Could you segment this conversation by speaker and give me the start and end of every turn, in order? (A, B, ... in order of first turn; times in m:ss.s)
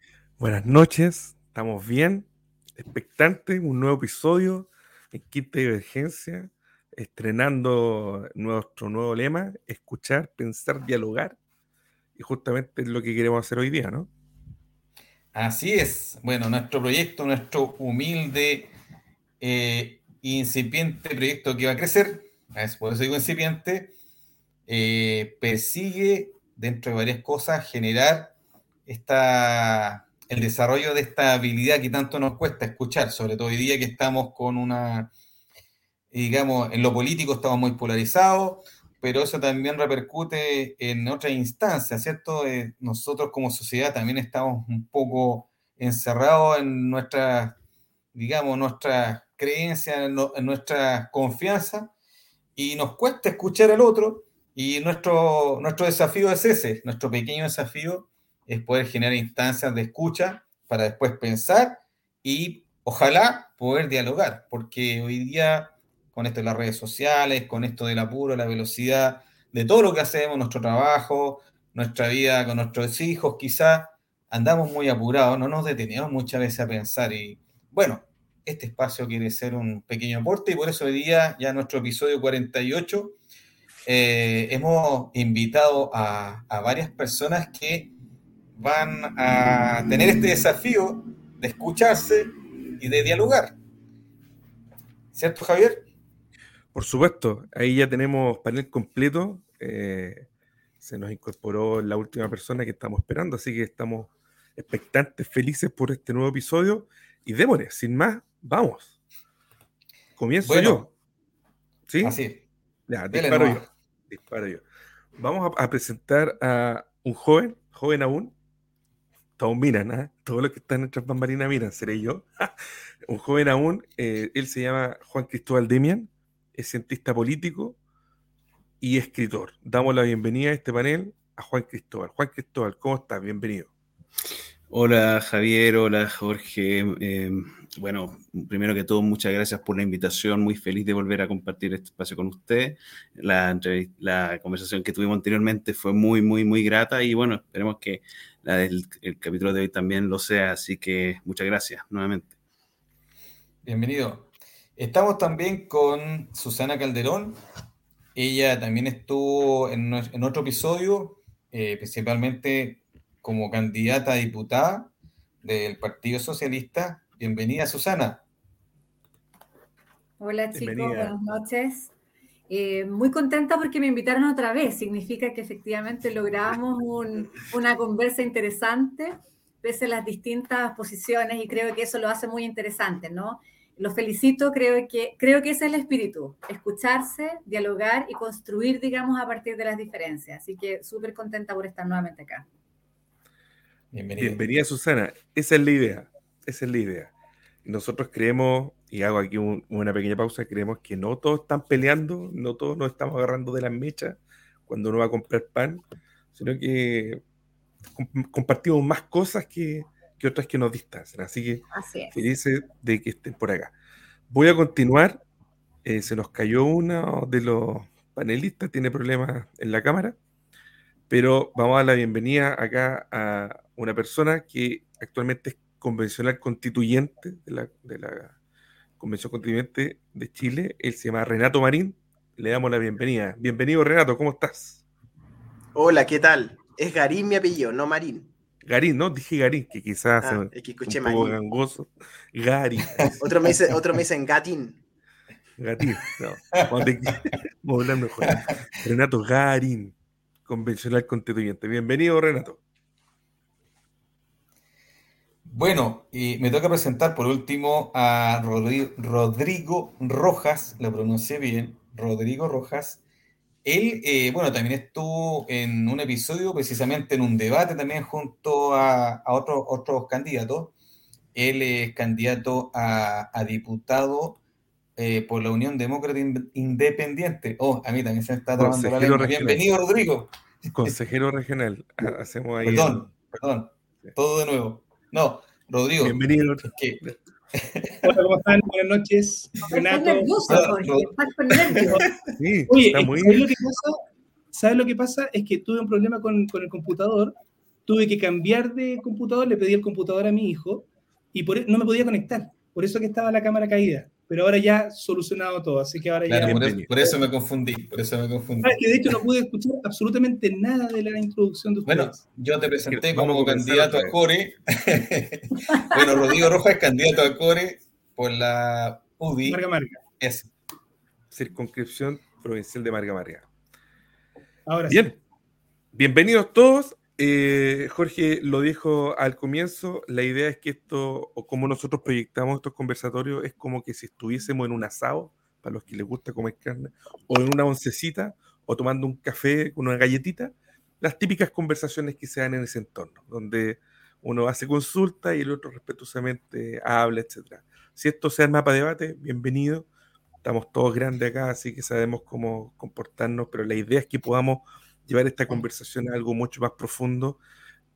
0:00.4-0:11.4 A
0:12.2-0:14.1 A
0:15.3-0:18.7 B
0:19.4-0:23.9 B
0:24.7-0:28.3 B
0:28.9-0:35.1 B
0:36.1-0:47.6 B
0:48.1-0:51.9 B
0:52.6-1:23.2 B
1:23.8-1:27.9 B
1:28.6-1:33.6 B
1:35.1-1:35.9 B
1:36.7-1:40.3 A
1:40.8-1:48.9 A
1:50.2-1:50.9 A
1:50.4-1:50.9 B
1:51.9-1:52.2 A
1:52.0-1:52.4 B
1:52.9-1:54.6 A
1:53.1-1:53.7 B
1:55.2-1:58.3 A
1:59.4-2:02.5 A
2:03.0-2:07.8 A
2:08.8-2:13.7 A
2:14.7-2:32.3 C
2:33.6-2:37.4 B
2:38.1-2:44.9 B
2:45.4-2:48.2 B
2:50.2-2:51.9 D
2:50.5-2:51.1 A
2:52.5-3:12.5 D
3:13.9-3:14.6 B
3:14.2-3:17.1 A
3:17.6-3:27.2 A
3:28.0-3:33.7 A
3:31.7-3:32.1 D
3:34.3-3:35.2 A
3:35.8-3:40.2 A
3:41.1-3:48.4 A
3:49.0-3:54.8 A
3:55.7-3:58.3 E
3:58.6-4:03.2 A
4:00.2-4:01.4 E
4:03.2-4:04.8 E
4:05.6-4:09.9 A
4:06.5-4:07.2 B
4:08.3-4:08.5 B
4:10.4-4:12.6 A
4:15.5-4:23.0 B
4:23.6-4:30.7 B
4:31.3-4:34.4 B
4:35.0-4:40.9 B
4:38.6-4:39.6 A
4:40.7-4:43.0 A
4:42.6-4:47.0 B
4:46.0-4:47.2 A
4:47.5-4:48.2 B
4:48.0-4:50.6 F
4:49.7-4:52.0 D
4:50.5-4:51.1 B
4:51.6-4:52.1 B
4:51.8-4:52.0 F
4:52.4-4:53.5 A
4:52.7-5:06.8 F
5:06.3-5:09.2 B
5:06.5-5:06.9 A
5:08.6-5:12.2 F
5:11.8-5:19.6 B
5:12.9-5:14.2 A
5:19.4-5:20.0 F
5:20.2-5:20.5 B
5:21.3-5:23.4 A
5:24.6-5:25.1 F
5:24.9-5:25.2 A
5:25.9-5:49.9 A
5:50.4-5:57.4 A